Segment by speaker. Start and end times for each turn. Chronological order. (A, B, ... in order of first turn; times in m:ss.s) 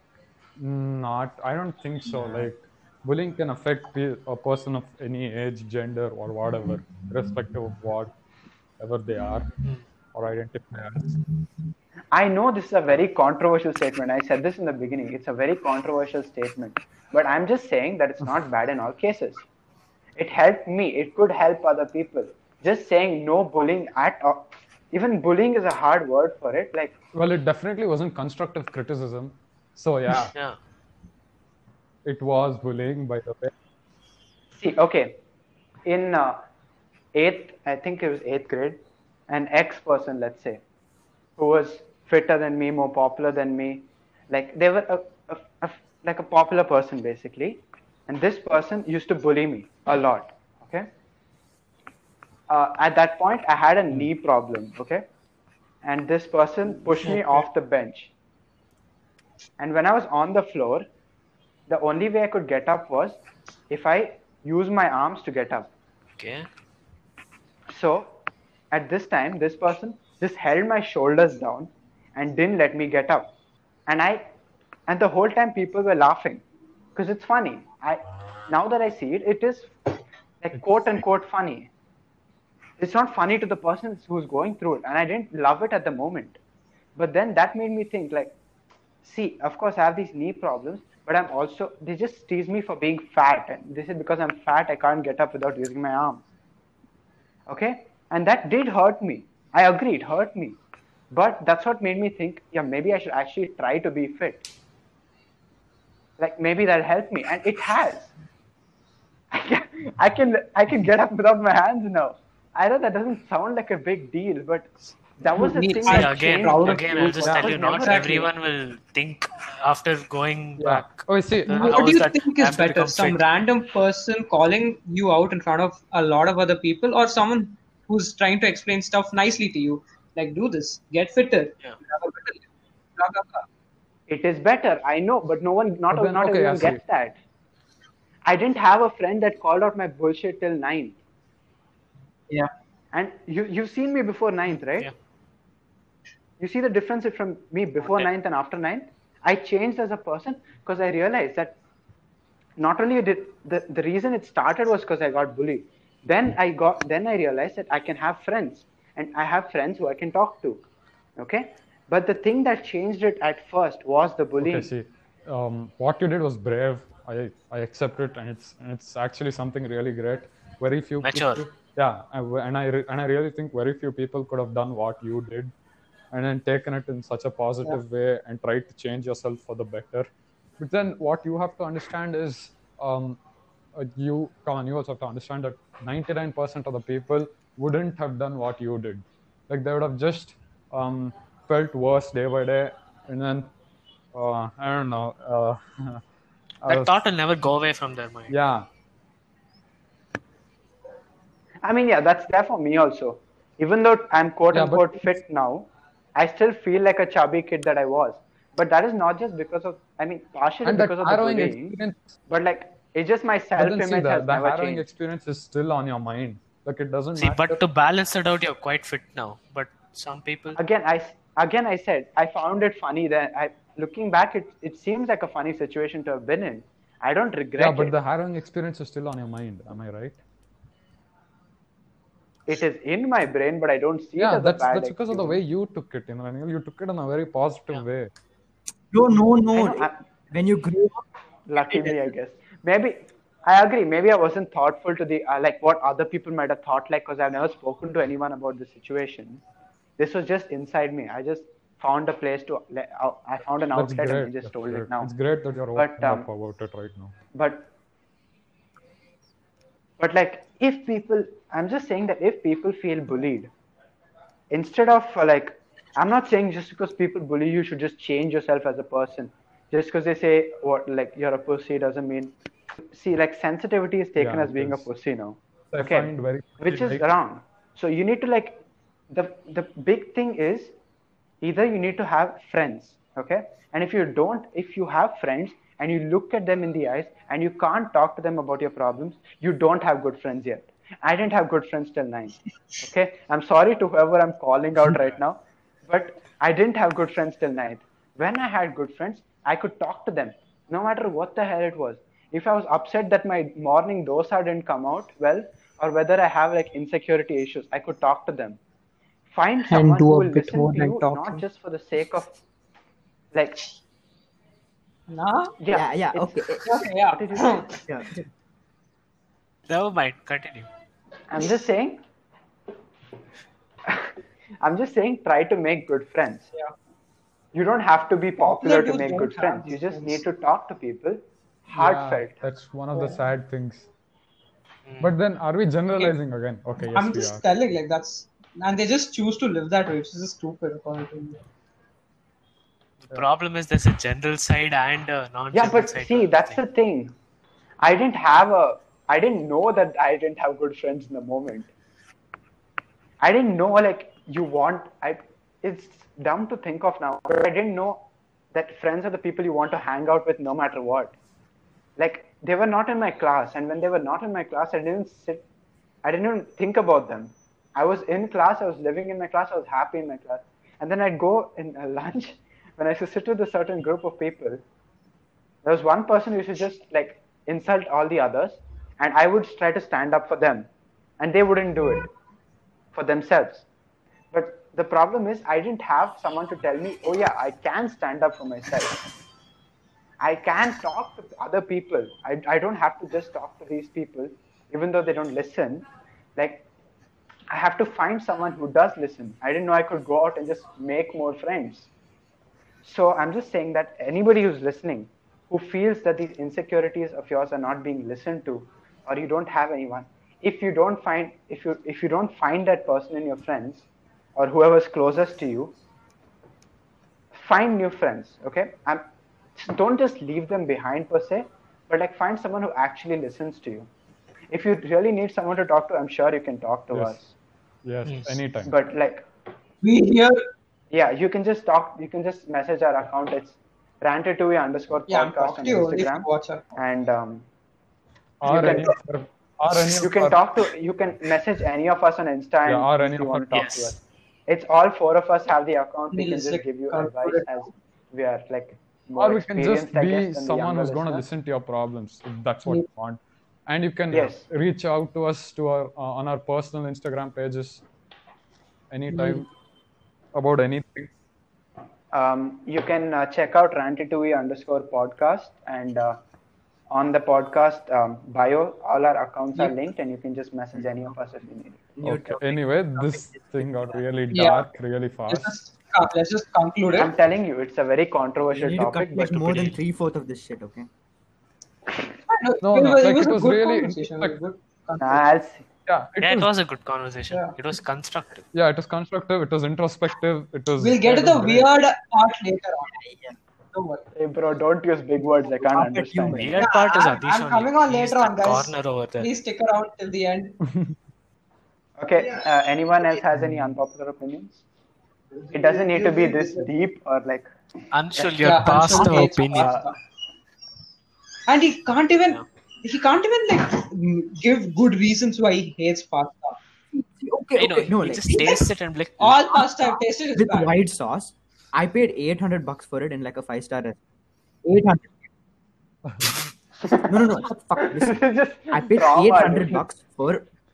0:00.6-0:08.1 A
0:08.8-0:09.5 A
0:10.1-0:11.1 A
0:12.1-0:19.4 B
0:20.2-0:26.9 B
0:27.1-0:30.3 A
0:32.0-0:33.5 A
0:34.6-0:35.2 B
0:35.9-0:36.4 B
0:37.1-0:40.6 B
0:41.4-0:50.9 B
0:52.5-0:55.0 B
0:55.8-0:58.1 B
0:59.6-1:00.8 B
1:01.7-1:03.2 B
1:03.7-1:05.7 B
1:06.2-1:06.5 C
1:07.7-1:08.1 B
1:08.7-1:13.3 B
1:13.9-1:14.3 B
1:14.9-1:16.4 B
1:17.0-1:19.7 B
1:20.4-1:21.7 B
1:22.8-1:26.4 B
1:27.0-1:28.4 B
1:29.0-1:36.2 B
1:37.5-1:40.6 B
1:41.1-1:44.5 B
1:46.2-1:48.1 B
1:49.3-1:58.0 B
1:55.4-1:58.3 D
1:55.9-2:03.3 C
1:57.2-1:57.7 A
2:00.6-2:01.9 A
2:01.5-2:12.4 D
2:13.0-2:13.5 D
2:14.1-2:17.2 B
2:15.9-2:16.8 A
2:18.2-2:21.0 B
2:22.9-2:24.9 B
2:26.4-2:31.6 B
2:27.8-2:28.1 C
2:32.6-2:40.6 B
2:41.2-2:44.7 B
2:44.4-2:55.5 A
2:51.0-2:51.4 C
2:56.1-3:03.2 A
3:03.8-3:13.5 A
3:14.1-3:16.0 A
3:16.6-3:16.9 A
3:16.7-3:18.3 C
3:18.3-3:18.7 A
3:21.6-3:34.8 B
3:24.5-3:25.1 A
3:30.6-3:32.1 A
3:33.6-3:37.6 A
3:37.2-3:40.6 C
3:40.5-3:48.0 B
3:47.6-3:50.2 A
3:52.5-3:55.4 B
3:54.2-3:58.1 A
3:58.9-4:02.1 E
3:59.5-4:00.0 B
4:01.5-4:09.4 B
4:10.0-4:15.1 B
4:13.7-4:17.2 A
4:15.8-4:16.3 B
4:17.3-4:17.7 B
4:20.0-4:23.5 B
4:24.5-4:40.7 B
4:34.2-4:34.9 A
4:35.7-4:37.0 A
4:41.4-5:08.6 B
5:09.3-5:12.3 B
5:09.7-5:11.4 D
5:13.3-5:13.6 B
5:15.1-5:15.5 D
5:15.6-5:17.7 B
5:15.7-5:16.7 E
5:16.6-5:17.8 D
5:17.9-5:18.2 E
5:19.7-5:20.7 C
5:21.3-5:22.0 B
5:23.9-5:26.5 B
5:27.5-5:32.4 B
5:28.4-5:30.2 D
5:31.7-5:33.9 A
5:32.9-5:33.2 D
5:34.9-5:35.1 C
5:35.0-5:37.4 A
5:36.8-5:41.4 D
5:43.0-5:46.6 C
5:45.5-5:47.1 B
5:47.8-5:51.7 B
5:53.2-6:01.1 B
6:02.0-6:05.4 B
6:06.0-6:14.6 B
6:15.6-6:20.7 B
6:21.2-6:22.1 B
6:22.9-6:23.6 B
6:24.3-6:29.0 B
6:30.2-6:36.7 B
6:37.5-6:41.9 B
6:42.8-6:53.8 B
6:54.4-6:55.8 B
6:57.3-6:59.0 B
6:59.6-7:03.9 B
7:04.5-7:07.3 B
7:06.9-7:07.2 A
7:07.8-7:08.8 A
7:08.0-7:08.4 C
7:08.6-7:09.2 B
7:09.8-7:10.4 D
7:10.9-7:17.5 B
7:15.1-7:16.6 D
7:18.4-7:20.4 A
7:18.4-7:19.0 B
7:18.5-7:18.8 D
7:20.0-7:31.2 B
7:22.6-7:23.6 A
7:23.5-7:24.0 C
7:26.1-7:27.7 D
7:29.2-7:37.8 A
7:34.1-7:34.5 B
7:38.9-7:39.5 A
7:39.1-7:39.4 D
7:40.4-7:41.1 A
7:42.1-7:46.2 B
7:46.9-7:52.4 B
7:52.0-7:54.0 E
7:52.3-7:55.5 A
7:54.3-7:54.6 D
7:55.3-7:57.1 D
7:56.9-7:59.8 B
7:58.5-8:00.9 E
8:02.3-8:05.2 D
8:02.6-8:04.4 A
8:05.0-8:05.6 B
8:05.9-8:06.5 A
8:06.2-8:08.5 C
8:07.3-8:07.6 D
8:08.5-8:11.7 A
8:10.8-8:12.9 D
8:12.9-8:13.4 E
8:13.7-8:14.0 D
8:14.2-8:16.5 B
8:15.4-8:16.6 E
8:16.4-8:19.3 C
8:16.6-8:20.6 D
8:20.6-8:21.0 A
8:22.0-8:24.6 B
8:25.4-8:26.7 D
8:25.5-8:27.5 B
8:27.9-8:29.7 C
8:28.4-8:30.0 D
8:29.1-8:29.9 B
8:31.5-8:36.6 D
8:36.9-8:38.5 E
8:37.6-8:39.6 C
8:38.3-8:38.6 D
8:39.2-8:40.7 D
8:39.8-8:44.0 E
8:44.6-8:45.3 E
8:46.8-8:49.8 B
8:47.1-8:48.2 E
8:48.7-8:50.5 E